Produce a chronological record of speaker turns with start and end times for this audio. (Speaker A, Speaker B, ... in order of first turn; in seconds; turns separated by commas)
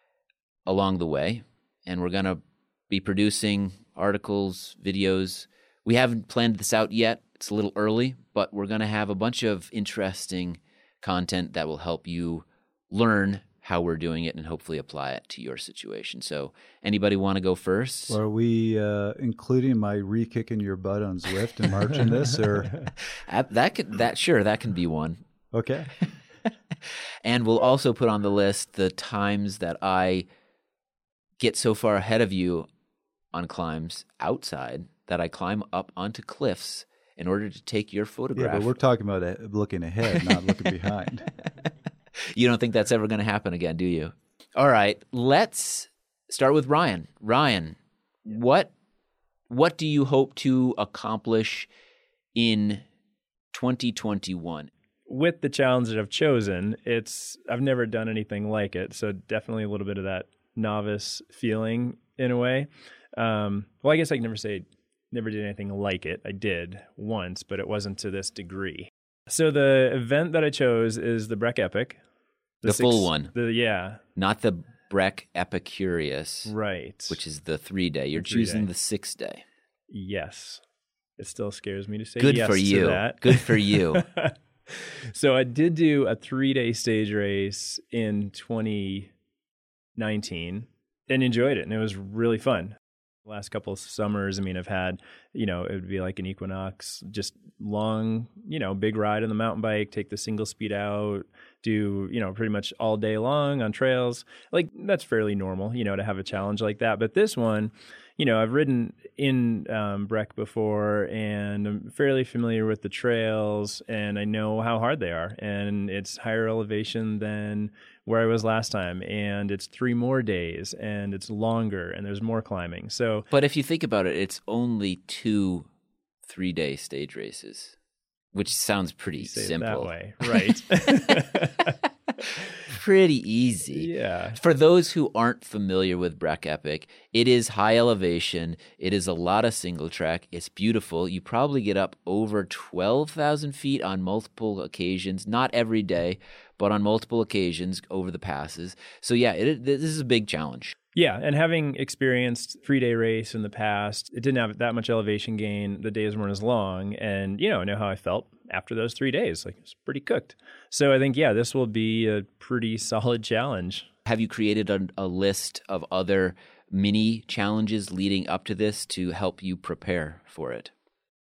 Speaker A: 0.7-18.2, Speaker B: 18.1-22.9, Speaker A: 23.2-25.2, Speaker B: 25.5-25.9, Speaker A: 27.2-30.2, Speaker A: 31.4-32.7, Speaker A: 33.3-38.7, Speaker B: 38.4-41.3, Speaker A: 42.3-48.7, Speaker A: 49.5-51.7, Speaker A: 52.3-52.8, Speaker A: 53.5-54.7, Speaker C: 55.1-72.0, Speaker C: 72.6-74.0, Speaker A: 72.6-73.3, Speaker A: 74.2-76.5, Speaker C: 76.5-77.2, Speaker A: 77.1-79.4, Speaker C: 78.2-78.7, Speaker C: 79.9-80.6, Speaker C: 81.2-89.1, Speaker A: 82.2-84.0, Speaker C: 90.0-92.7, Speaker C: 93.2-123.3, Speaker A: 123.3-125.7, Speaker A: 126.2-127.7, Speaker A: 128.3-130.5, Speaker C: 129.2-131.7, Speaker A: 132.7-150.7, Speaker C: 133.8-134.4, Speaker C: 150.9-163.9, Speaker A: 164.1-170.7